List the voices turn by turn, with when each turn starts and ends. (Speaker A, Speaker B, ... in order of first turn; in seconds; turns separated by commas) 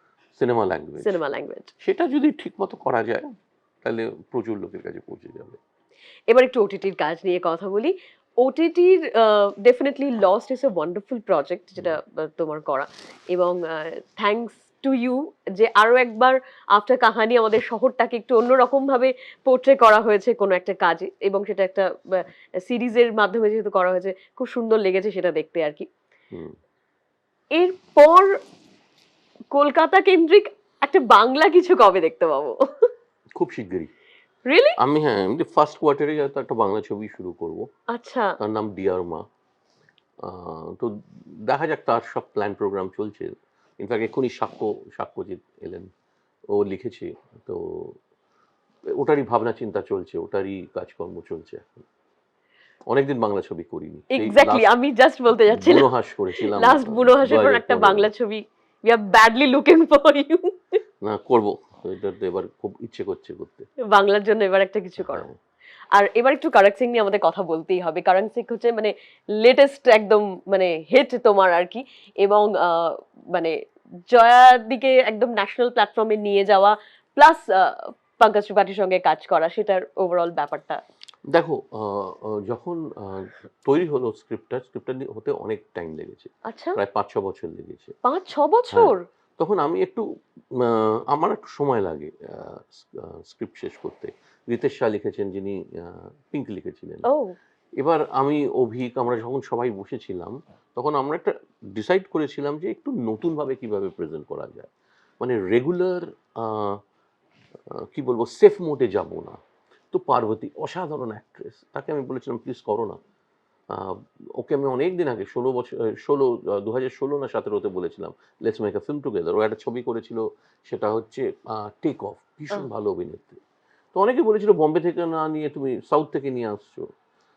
Speaker A: 0.4-1.2, Speaker B: 1.0-1.7, Speaker A: 1.8-3.3, Speaker A: 3.8-5.6, Speaker B: 6.3-25.9, Speaker B: 27.6-28.4, Speaker B: 29.5-32.9, Speaker A: 33.4-33.9, Speaker B: 34.5-34.8, Speaker A: 34.8-37.7, Speaker B: 37.9-38.4, Speaker A: 38.4-39.2, Speaker A: 40.2-45.9, Speaker A: 46.5-48.0, Speaker A: 48.9-51.9, Speaker A: 52.9-54.7, Speaker B: 54.1-60.5, Speaker A: 55.5-58.1, Speaker A: 61.0-63.7, Speaker B: 63.9-65.3, Speaker A: 65.0-65.4, Speaker B: 65.9-73.6, Speaker B: 74.1-80.8, Speaker A: 81.3-87.9, Speaker B: 86.5-86.8, Speaker B: 88.0-89.0, Speaker A: 88.7-90.0, Speaker A: 90.5-97.0, Speaker B: 97.1-97.3, Speaker A: 97.8-106.8, Speaker A: 107.7-109.4, Speaker A: 109.9-113.0, Speaker A: 113.7-123.4, Speaker A: 124.0-126.9